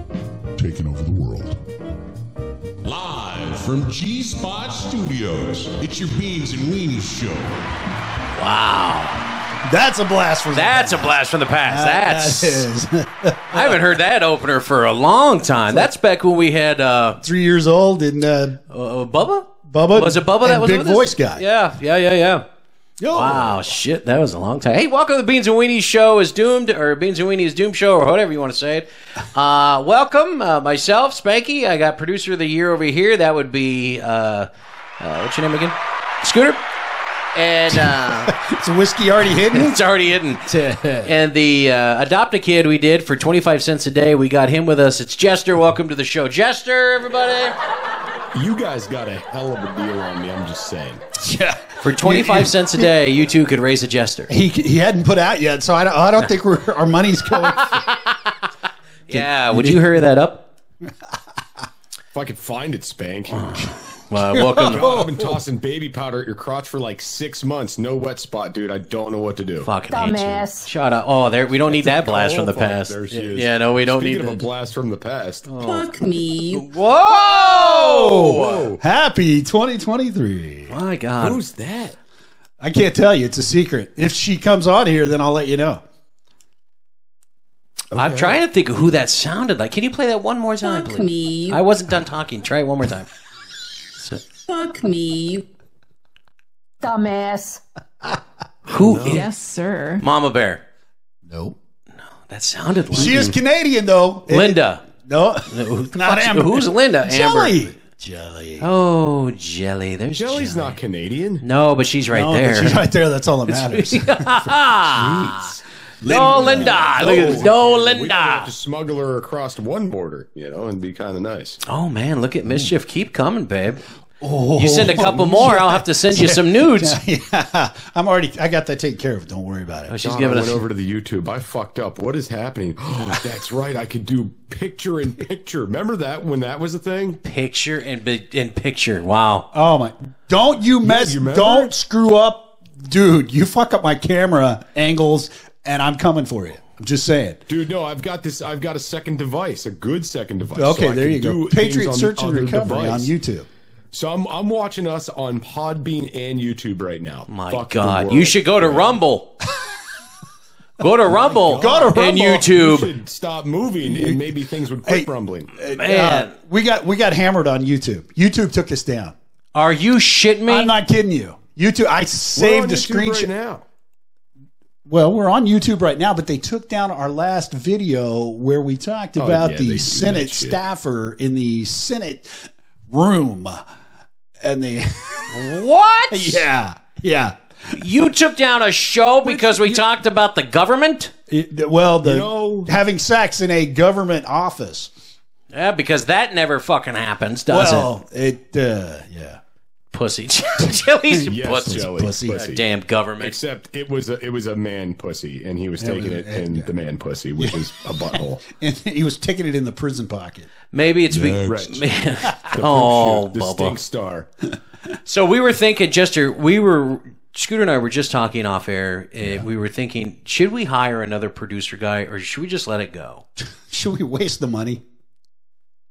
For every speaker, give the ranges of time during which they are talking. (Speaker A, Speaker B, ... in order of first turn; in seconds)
Speaker A: 0.6-1.6, 2.8-7.6, 211.1-211.5
Speaker B: 8.3-9.2, 10.5-12.7, 13.5-17.2, 18.7-22.4, 23.1-34.5, 35.0-36.6, 37.3-38.3, 39.5-40.5, 41.0-47.5, 51.8-54.3, 59.1-60.5, 63.3-65.0, 69.6-74.4, 75.5-75.9, 76.5-78.7, 80.7-81.4, 88.0-93.1, 98.7-99.2, 100.0-100.6, 102.3-103.3, 104.3-104.8, 105.5-107.7, 108.6-110.8, 111.4-112.8, 113.5-118.5, 121.7-123.8, 124.6-127.0, 129.9-130.6, 137.2-139.5, 157.3-159.3, 160.8-162.9, 165.8-166.3, 169.6-170.7, 185.3-186.4, 187.7-191.1, 195.5-197.9, 199.9-203.4, 210.7-213.8, 215.1-223.2
Speaker C: 9.7-13.9, 17.2-18.6, 19.7-21.4, 23.0-23.7, 37.7-39.8, 40.5-41.1, 51.2-52.9, 54.3-57.9, 59.1-60.1, 64.3-65.4, 77.3-80.8, 82.6-85.8, 101.3-101.6, 102.9-108.7, 112.1-114.3, 116.0-117.5, 122.5-122.7, 124.2-130.0, 139.5-147.4, 150.6-153.5, 161.1-162.5, 163.8-164.3, 164.8-169.2, 170.5-173.3, 174.9-183.6, 184.4-185.4, 186.1-187.4, 189.3-189.8, 191.3-194.9, 197.5-199.4, 201.1-202.4, 205.8-206.7, 207.4-210.5, 219.2-219.5, 223.7-224.8
Speaker D: 48.3-51.0, 62.1-63.7, 64.7-69.7, 71.7-75.5, 78.3-78.8, 81.2-82.0, 87.9-88.4, 98.8-99.3, 103.0-103.3, 110.2-111.4, 114.9-121.6, 124.9-125.3, 130.0-137.2, 140.8-141.7, 147.5-153.1, 153.9-159.0, 162.4-165.5, 172.3-173.6, 179.2-180.6, 192.0-192.7, 201.3-202.7, 203.2-208.4, 211.5-211.8, 212.5-214.3
Speaker E: 69.9-70.7, 75.6-76.7, 90.6-91.6, 94.5-95.4, 96.8-97.6, 99.1-100.0